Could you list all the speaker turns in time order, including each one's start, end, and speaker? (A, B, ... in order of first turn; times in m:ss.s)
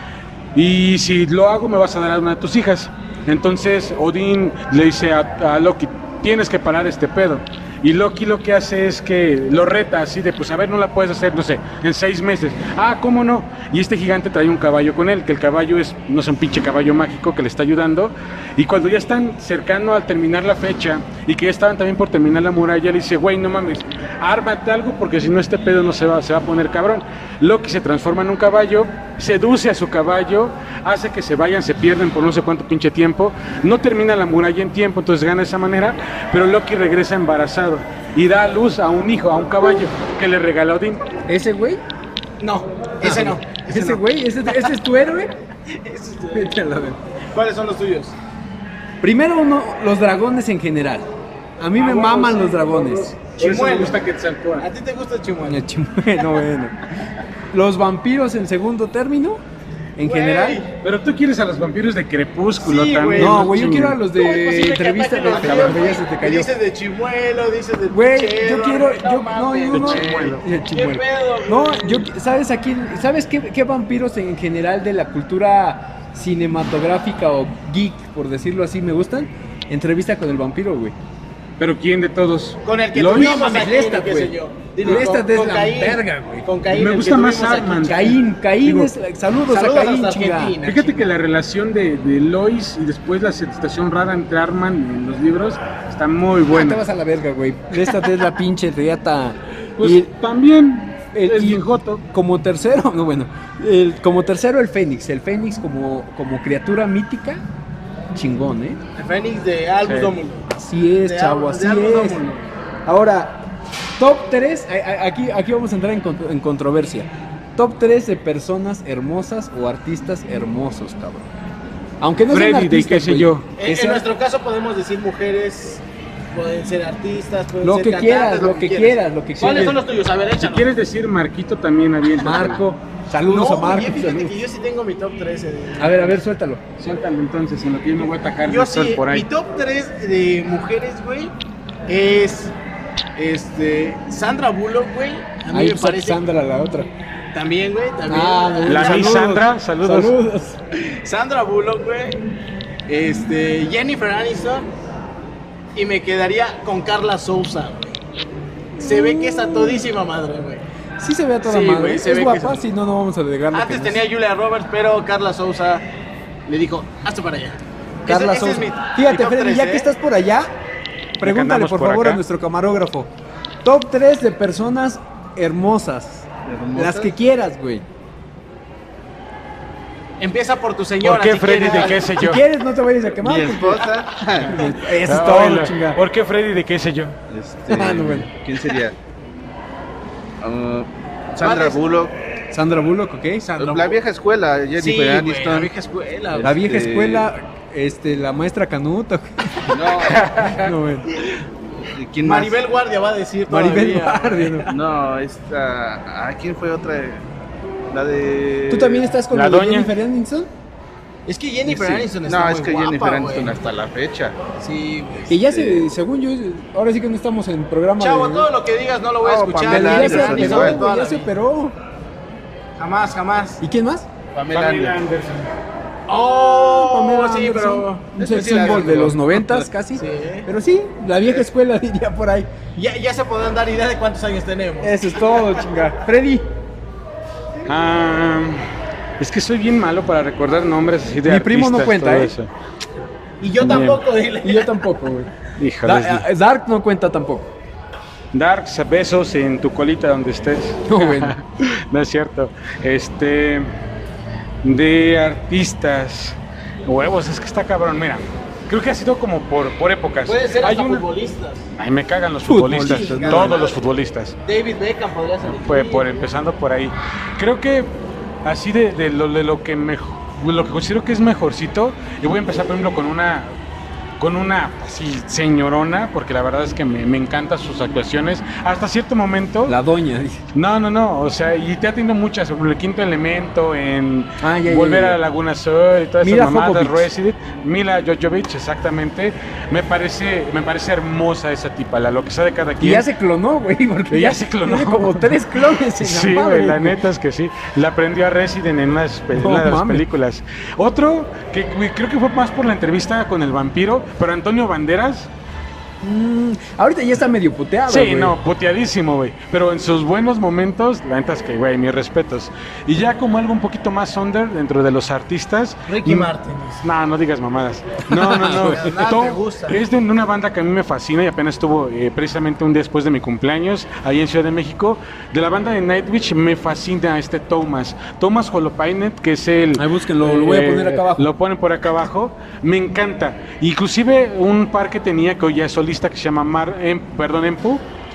0:00.5-0:41.0 A
0:41.3-0:41.8 B
0:42.4-0:44.7 C
0:43.0-0:45.3 B
0:45.7-0:46.5 C
0:46.3-0:47.0 B
0:47.3-0:48.2 C
0:49.0-0:53.1 B
0:51.8-0:52.6 C
0:52.7-0:54.6 A
0:53.3-0:54.0 C
0:54.6-0:55.6 C
0:55.4-0:56.8 B
0:57.5-0:59.4 B
1:00.0-1:00.6 B
1:00.0-1:00.7 C
1:00.8-1:04.0 A
1:02.6-1:12.0 C
1:03.1-1:06.5 B
1:05.4-1:05.8 A
1:07.9-1:20.9 B
1:09.7-1:10.4 A
1:21.6-1:23.5 A
1:22.6-1:28.0 C
1:23.0-1:26.5 B
1:26.7-1:28.9 A
1:27.7-1:30.6 B
1:29.5-1:31.0 C
1:30.6-1:36.8 A
1:36.5-1:40.1 B
1:39.8-1:42.0 A
1:41.1-1:47.4 B
1:48.1-1:48.8 B
1:49.0-1:50.5 C
1:49.8-1:50.1 A
1:50.6-1:52.2 B
1:51.0-1:52.4 C
1:52.8-1:53.4 B
1:54.0-2:01.3 B
2:02.0-2:04.0 B
2:02.3-2:03.5 A
2:03.6-2:10.7 C
2:07.6-2:09.8 B
2:10.4-2:12.6 A
2:12.2-2:14.4 B
2:13.3-2:16.2 C
2:15.8-2:16.6 B
2:16.8-2:19.2 A
2:18.4-2:21.3 C
2:21.9-2:22.5 C
2:23.2-2:26.2 C
2:25.5-2:26.9 B
2:27.3-2:29.2 C
2:28.1-2:30.6 B
2:28.6-2:30.1 A
2:30.8-2:32.2 C
2:32.9-2:34.7 C
2:35.7-2:38.0 C
2:38.8-2:39.8 B
2:38.8-2:40.6 C
2:41.0-2:44.0 B
2:41.4-2:42.6 C
2:43.5-2:45.8 C
2:46.5-2:49.9 C
2:48.0-2:50.5 B
2:51.2-2:53.1 B
2:51.2-2:52.2 A
2:53.6-2:57.8 B
2:56.4-2:57.1 D
3:00.2-3:02.0 C
3:01.0-3:02.4 A
3:01.8-3:03.8 B
3:03.2-3:04.6 D
3:04.4-3:06.0 B
3:05.0-3:07.1 A
3:07.3-3:09.0 D
3:07.7-3:08.3 B
3:10.4-3:12.1 D
3:11.4-3:11.8 C
3:12.5-3:13.4 B
3:13.4-3:14.0 C
3:13.6-3:15.7 D
3:14.8-3:16.5 C
3:16.3-3:17.3 D
3:16.4-3:21.1 B
3:19.7-3:20.2 D
3:20.1-3:20.7 A
3:21.9-3:22.6 D
3:22.2-3:24.6 C
3:23.5-3:24.7 B
3:24.7-3:27.2 D
3:27.9-3:29.1 D
3:28.7-3:30.5 B
3:29.3-3:29.9 A
3:31.3-3:33.7 C
3:31.7-3:34.4 D
3:34.6-3:35.4 C
3:35.3-3:38.5 B
3:35.5-3:35.9 D
3:38.0-3:41.3 C
3:39.2-3:40.8 D
3:39.6-3:41.8 B
3:42.8-3:43.6 C
3:43.6-3:44.1 B
3:44.3-3:44.9 C
3:44.5-3:45.5 A
3:46.1-3:50.5 C
3:46.6-3:52.5 B
3:48.4-3:49.1 D
3:52.8-3:55.6 C
3:54.8-3:56.5 B
3:57.6-3:58.6 A
3:59.2-4:02.5 A
4:01.2-4:02.3 B
4:03.4-4:04.8 C
4:03.6-4:04.0 A
4:04.4-4:05.3 B
4:05.6-4:06.2 A
4:05.8-4:07.5 B
4:08.3-4:13.7 A
4:10.9-4:11.4 B
4:14.6-4:21.0 A
4:20.2-4:21.6 C
4:21.8-4:24.4 A
4:22.5-4:23.6 B
4:22.8-4:23.8 C
4:24.4-4:26.0 C
4:25.5-4:27.9 A
4:28.4-4:33.5 A
4:34.2-4:39.8 A
4:39.6-4:40.4 B
4:40.5-4:53.1 A
4:44.4-4:45.2 B
4:46.2-4:47.1 B
4:52.8-4:57.0 B
4:54.1-5:05.3 A
4:59.3-5:00.0 B
5:06.0-5:08.4 B
5:07.9-5:16.3 A
5:15.9-5:16.8 C
5:16.8-5:37.8 A
5:18.1-5:18.9 B
5:18.4-5:19.8 C
5:29.8-5:31.3 B